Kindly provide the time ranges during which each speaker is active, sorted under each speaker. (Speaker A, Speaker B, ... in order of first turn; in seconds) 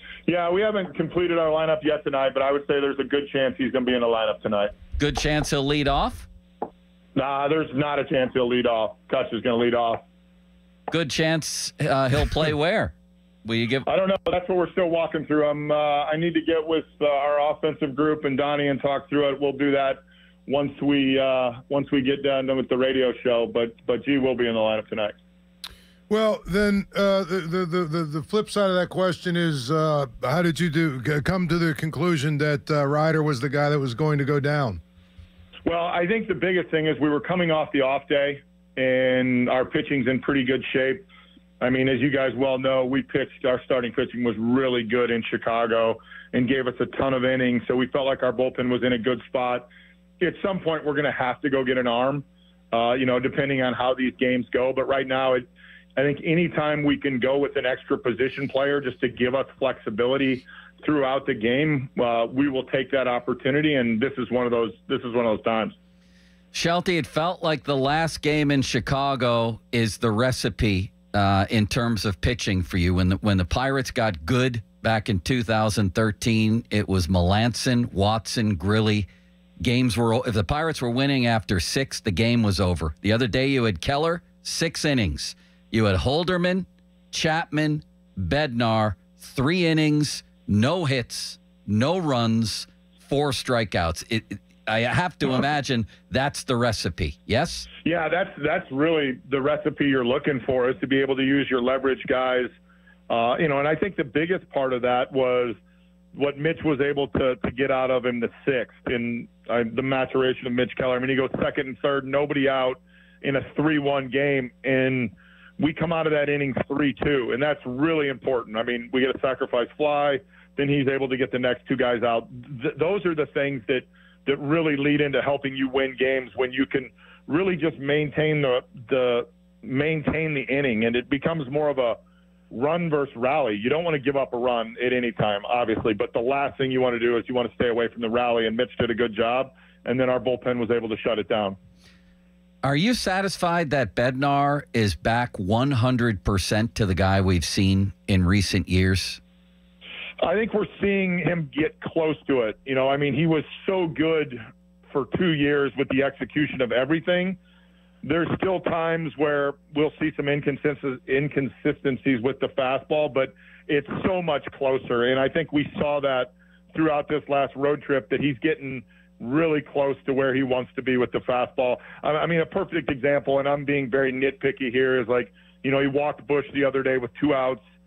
Speaker A: 0.3-4.7, 7.2-10.0, 13.9-25.2, 35.6-41.1, 41.6-49.7, 50.2-65.8, 97.8-102.5, 103.1-105.6, 106.1-132.0, 132.5-141.6, 150.2-157.4, 158.0-177.6
Speaker B: 5.0-6.3, 10.9-12.9, 13.4-13.8, 66.5-79.1, 79.6-97.7, 142.6-149.2
Speaker C: 26.1-34.8